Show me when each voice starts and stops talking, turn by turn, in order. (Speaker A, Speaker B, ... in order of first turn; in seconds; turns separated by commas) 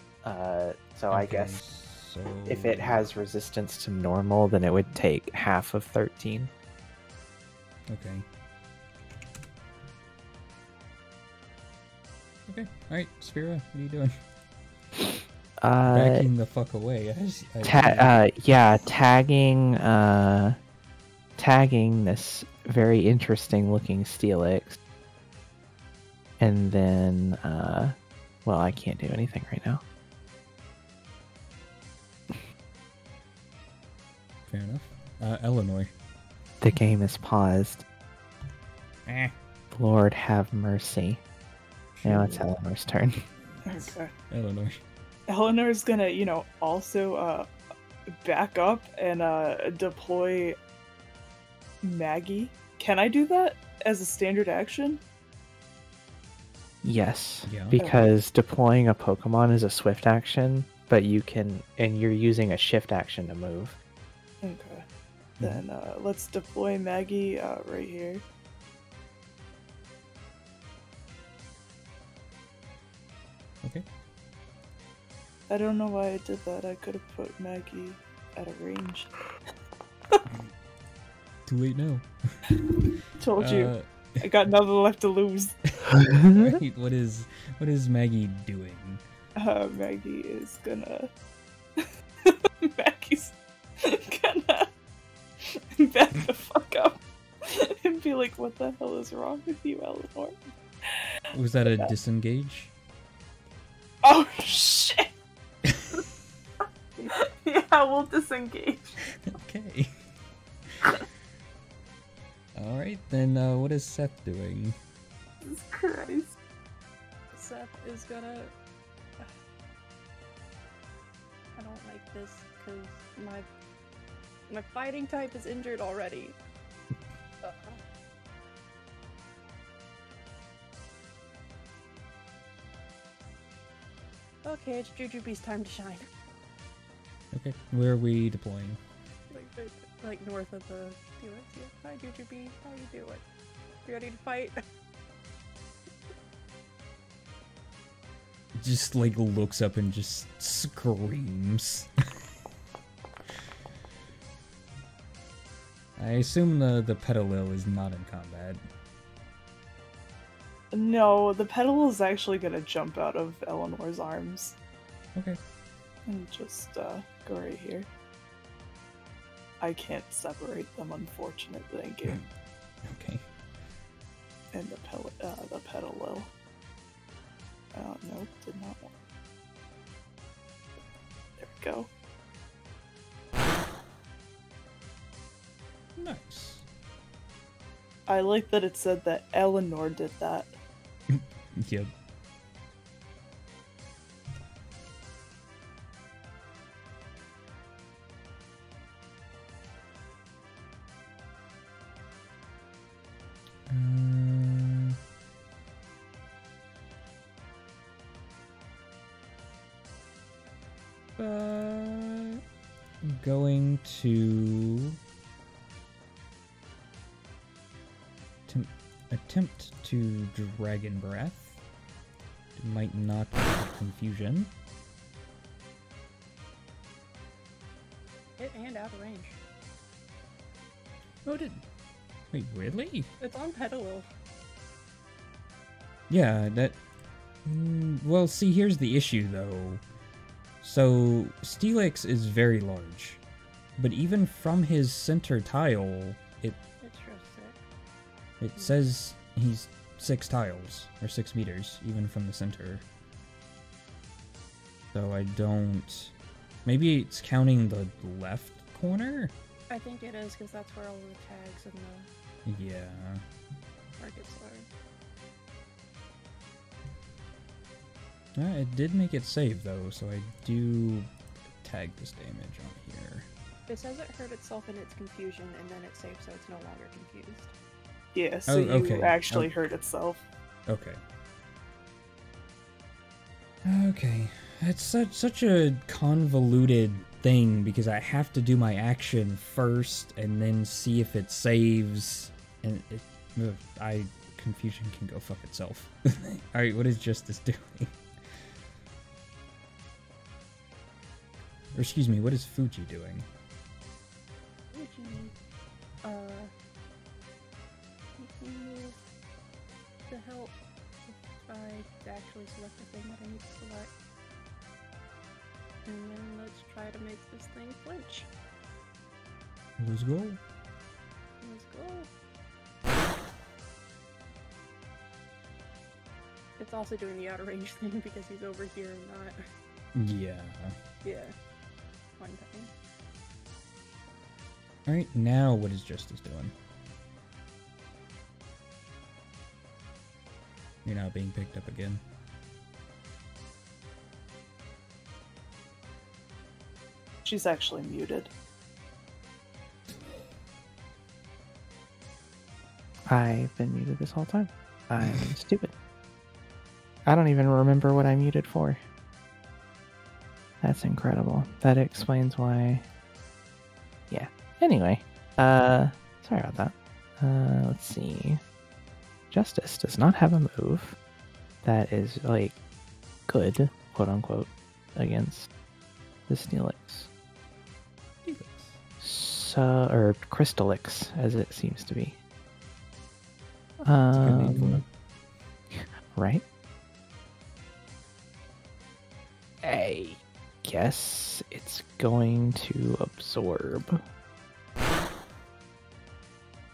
Speaker A: 0.2-1.6, Speaker B: 1.1-3.0, Speaker A: 2.5-6.5, Speaker B: 7.9-8.2, Speaker B: 12.5-14.1, Speaker A: 14.9-16.3, Speaker B: 15.9-18.2, Speaker A: 17.6-20.6, Speaker A: 21.4-24.8, Speaker A: 26.4-29.8, Speaker B: 34.5-35.9, Speaker A: 36.6-37.8, Speaker B: 39.0-39.3, Speaker A: 39.7-41.2, Speaker B: 42.0-42.4, Speaker A: 42.0-43.2, Speaker C: 43.6-44.1, Speaker B: 43.8-44.8, Speaker C: 45.3-47.5, Speaker C: 48.1-50.6, Speaker C: 51.8-55.0, Speaker A: 56.8-63.8, Speaker B: 57.5-57.8, Speaker C: 57.8-58.1, Speaker C: 64.4-64.8, Speaker C: 65.4-68.2, Speaker C: 75.5-79.1, Speaker B: 81.5-82.8, Speaker C: 82.6-85.7, Speaker B: 83.4-84.3, Speaker A: 86.0-86.4, Speaker B: 86.3-89.0, Speaker C: 89.4-91.1, Speaker C: 91.8-94.7, Speaker C: 95.4-100.4, Speaker C: 100.9-101.1, Speaker B: 101.3-102.7, Speaker C: 101.7-101.9, Speaker C: 104.0-105.1, Speaker C: 107.1-108.9, Speaker B: 109.3-109.9, Speaker B: 112.5-114.8, Speaker C: 115.4-116.3, Speaker D: 117.3-118.5, Speaker D: 121.5-123.5, Speaker D: 124.5-126.4, Speaker D: 127.4-127.8, Speaker D: 134.4-136.1, Speaker B: 137.3-138.8, Speaker D: 139.3-143.3, Speaker D: 143.8-144.6, Speaker B: 148.6-151.9, Speaker B: 156.0-158.6, Speaker C: 160.7-164.6, Speaker C: 166.1-167.9, Speaker C: 169.6-172.2, Speaker B: 172.8-173.3, Speaker C: 174.5-176.3, Speaker C: 177.7-178.9, Speaker C: 181.4-181.9, Speaker B: 185.9-186.6, Speaker C: 188.1-190.6, Speaker B: 191.1-191.9, Speaker B: 203.7-204.9, Speaker B: 211.2-212.4, Speaker B: 213.0-215.0, Speaker B: 218.5-221.6, Speaker B: 222.6-224.5, Speaker D: 228.4-229.4, Speaker B: 231.2-231.6, Speaker B: 232.3-233.1, Speaker D: 233.2-234.1, Speaker B: 236.1-236.8, Speaker B: 237.4-239.8, Speaker B: 240.6-243.2, Speaker B: 243.8-246.6, Speaker D: 246.8-247.6, Speaker B: 248.4-252.8, Speaker B: 254.9-256.1, Speaker B: 256.6-259.3, Speaker D: 259.7-262.1, Speaker B: 262.4-263.2, Speaker D: 264.0-264.7, Speaker B: 268.4-273.3, Speaker D: 273.7-277.5, Speaker C: 278.1-280.3, Speaker B: 278.5-279.5, Speaker B: 280.7-281.0, Speaker B: 283.6-297.9, Speaker B: 301.7-303.3, Speaker D: 304.7-305.3, Speaker D: 306.0-306.5, Speaker D: 308.2-309.0, Speaker D: 310.1-313.9, Speaker D: 315.8-318.3, Speaker B: 319.8-320.4, Speaker D: 321.4-322.1, Speaker D: 326.6-329.4, Speaker B: 329.9-330.8, Speaker D: 331.0-331.3, Speaker D: 332.2-332.7, Speaker B: 334.9-336.5, Speaker B: 340.8-342.0, Speaker C: 347.2-348.3, Speaker A: 353.1-355.7, Speaker A: 357.1-358.8, Speaker A: 360.6-362.8, Speaker A: 364.1-368.4, Speaker A: 369.3-370.9, Speaker A: 371.6-372.6, Speaker A: 373.3-375.5, Speaker A: 376.3-377.1, Speaker B: 378.2-378.8, Speaker A: 379.0-382.2, Speaker A: 383.8-384.8, Speaker B: 384.1-384.9, Speaker A: 385.7-386.4, Speaker A: 389.6-394.0